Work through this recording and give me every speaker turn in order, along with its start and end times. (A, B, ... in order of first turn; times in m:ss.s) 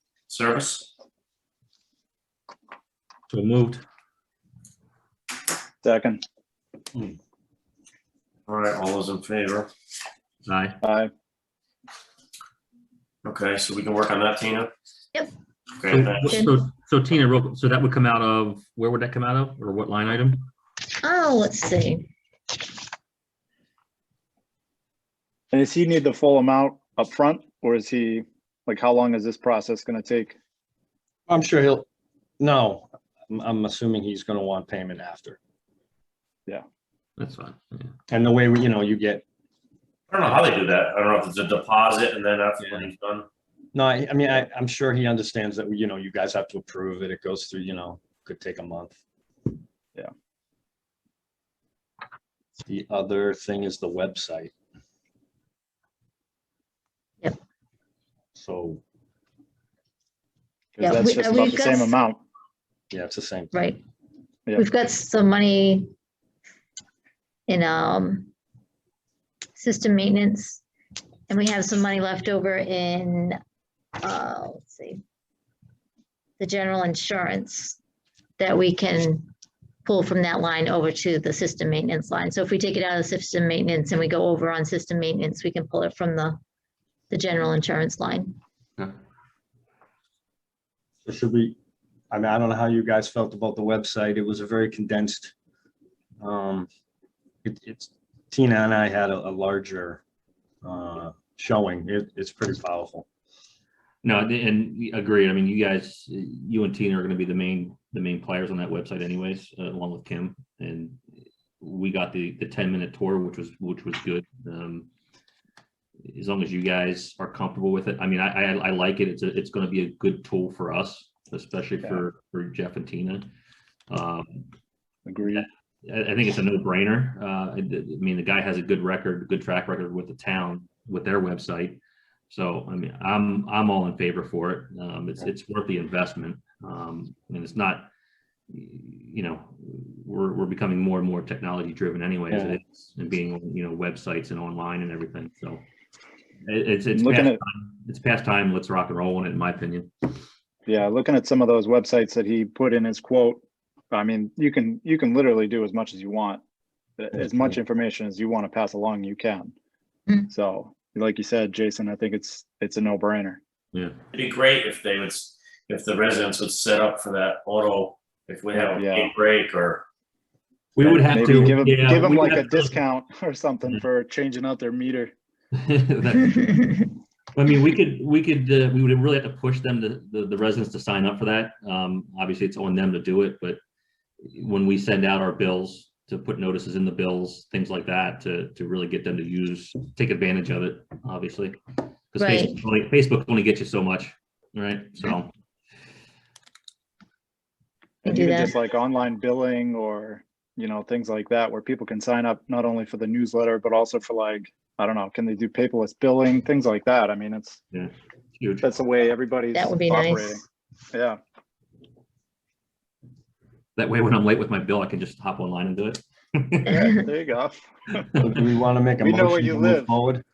0:00.3-0:00.9 A
0:03.3-0:03.8 B
0:05.8-0:06.2 C
0:08.5-0:09.7 A
0:10.5-0:10.8 B
0:10.8-0:11.1 C
0:13.2-0:14.7 A
0:15.8-0:16.4 A
0:15.9-0:20.5 B
0:16.2-0:16.5 D
0:21.0-0:22.1 D
0:25.5-0:30.4 C
0:31.3-0:31.9 E
0:32.4-0:35.4 E
0:37.2-0:37.9 B
0:38.1-0:39.2 E
0:40.1-0:43.3 A
0:43.7-0:49.0 E
0:52.7-0:54.5 E
0:58.4-0:58.8 E
1:00.8-1:02.2 C
1:00.8-1:02.0 D
1:02.9-1:03.5 E
1:03.5-1:03.8 D
1:04.6-1:05.9 D
1:07.5-1:08.3 D
1:09.6-1:10.6 D
1:11.3-1:13.4 D
1:14.0-1:15.0 D
1:16.4-1:17.8 D
1:18.4-1:19.3 D
1:19.8-1:26.4 D
1:27.1-1:28.4 D
1:31.0-1:31.6 E
1:32.1-1:35.3 E
1:36.2-1:36.7 E
1:37.4-1:40.0 E
1:40.6-1:43.1 E
1:44.0-1:51.0 B
1:51.6-1:54.9 B
1:56.1-2:03.3 B
2:03.9-2:04.5 B
2:05.1-2:05.5 C
2:05.3-2:17.9 B
2:18.5-2:25.6 B
2:22.3-2:22.6 E
2:26.5-2:29.9 B
2:26.9-2:27.4 C
2:30.7-2:33.4 C
2:33.9-2:36.4 C
2:37.0-2:39.5 C
2:40.3-2:43.4 C
2:44.1-2:49.8 A
2:48.7-2:49.1 C
2:50.8-2:52.8 B
2:50.8-2:55.1 C
2:55.5-3:03.6 B
3:04.2-3:11.6 B
3:12.1-3:15.3 B
3:12.2-3:12.6 D
3:18.0-3:27.6 C
3:18.1-3:18.5 D
3:27.7-3:28.7 B
3:28.6-3:31.2 C
3:29.5-3:30.4 D
3:33.8-3:36.9 B
3:36.7-3:38.0 C
3:38.2-3:40.2 E
3:39.0-3:39.9 C